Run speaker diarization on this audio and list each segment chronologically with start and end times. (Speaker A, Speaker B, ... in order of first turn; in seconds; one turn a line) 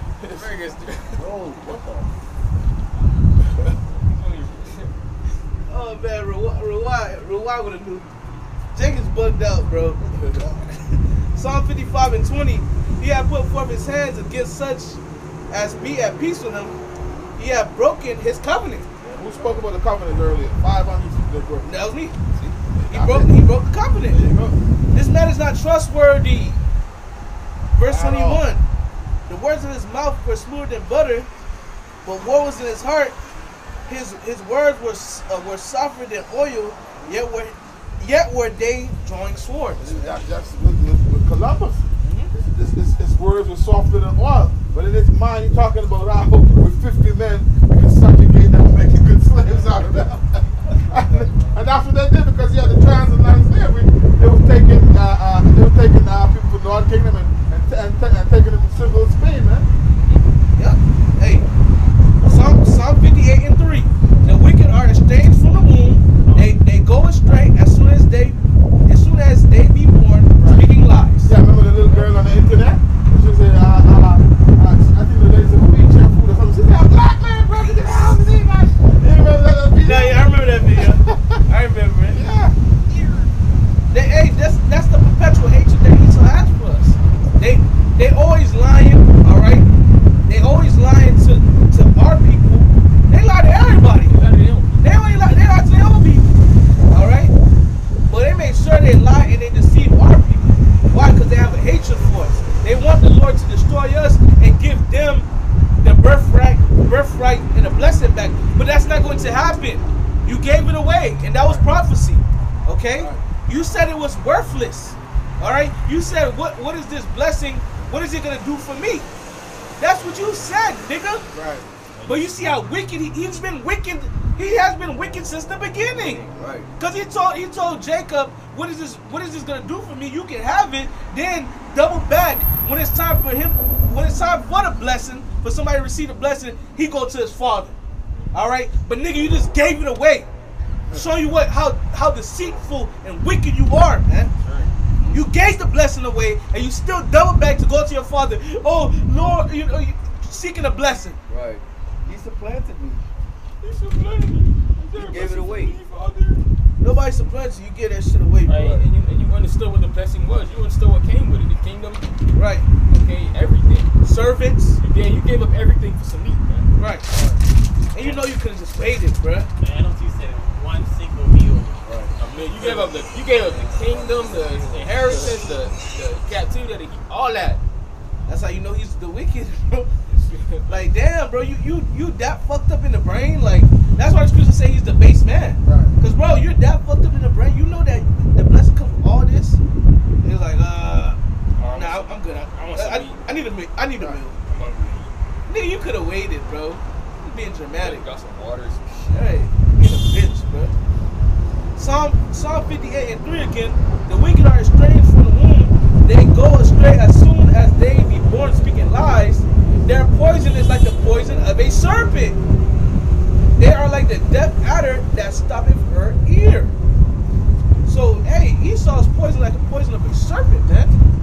Speaker A: 0.2-0.5
Speaker B: 0.3-1.3
Speaker C: 1.2-2.1
Speaker B: 4.0-4.9
Speaker D: 5.7-8.1
Speaker D: 8.8-16.8
Speaker A: 10.2-10.4
Speaker D: 17.4-18.9
Speaker A: 19.1-21.9
Speaker D: 21.6-22.2
Speaker A: 22.7-23.3
Speaker D: 22.9-24.3
Speaker A: 24.1-24.6
Speaker D: 24.9-26.6
Speaker D: 27.7-28.6
Speaker A: 27.9-28.5
Speaker D: 29.3-31.3
Speaker D: 32.0-33.2
Speaker D: 33.9-40.0
Speaker A: 39.8-59.7
Speaker D: 42.0-42.3
Speaker B: 59.8-60.2
Speaker D: 60.6-61.5
Speaker D: 62.2-71.3
Speaker A: 70.4-70.7
Speaker A: 71.2-81.4
Speaker D: 79.8-82.2
Speaker A: 82.1-82.6
Speaker D: 83.9-89.7
Speaker D: 90.3-94.3
Speaker B: 94.0-94.9
Speaker D: 94.8-96.3
Speaker D: 96.9-97.3
Speaker D: 98.1-105.3
Speaker D: 105.8-119.1
Speaker A: 111.3-111.7
Speaker A: 113.0-113.2
Speaker D: 119.8-121.3
Speaker A: 121.3-121.7
Speaker B: 122.0-122.3
Speaker D: 122.1-126.2
Speaker C: 126.0-126.7
Speaker D: 126.8-137.8
Speaker D: 138.3-140.3
Speaker D: 140.9-144.3
Speaker B: 144.4-144.7
Speaker D: 145.0-151.2
Speaker C: 151.3-153.0
Speaker B: 153.6-156.4
Speaker C: 154.9-155.8
Speaker D: 156.8-158.8
Speaker B: 158.5-162.1
Speaker D: 162.3-162.7
Speaker B: 162.9-163.9
Speaker D: 164.0-164.8
Speaker B: 164.8-166.7
Speaker D: 166.8-167.1
Speaker A: 167.1-167.4
Speaker D: 167.9-169.5
Speaker B: 168.0-168.2
Speaker E: 169.6-171.8
Speaker A: 171.8-172.1
Speaker B: 172.2-177.6
Speaker D: 178.3-179.9
Speaker B: 180.1-180.8
Speaker D: 180.7-189.6
Speaker A: 185.7-185.9
Speaker D: 190.2-194.4
Speaker B: 191.6-193.2
Speaker A: 193.9-194.2
Speaker B: 194.5-195.1
Speaker D: 195.5-198.1
Speaker B: 197.8-199.3
Speaker D: 199.1-200.7
Speaker D: 201.8-212.4
Speaker D: 213.6-216.7
Speaker D: 217.8-220.9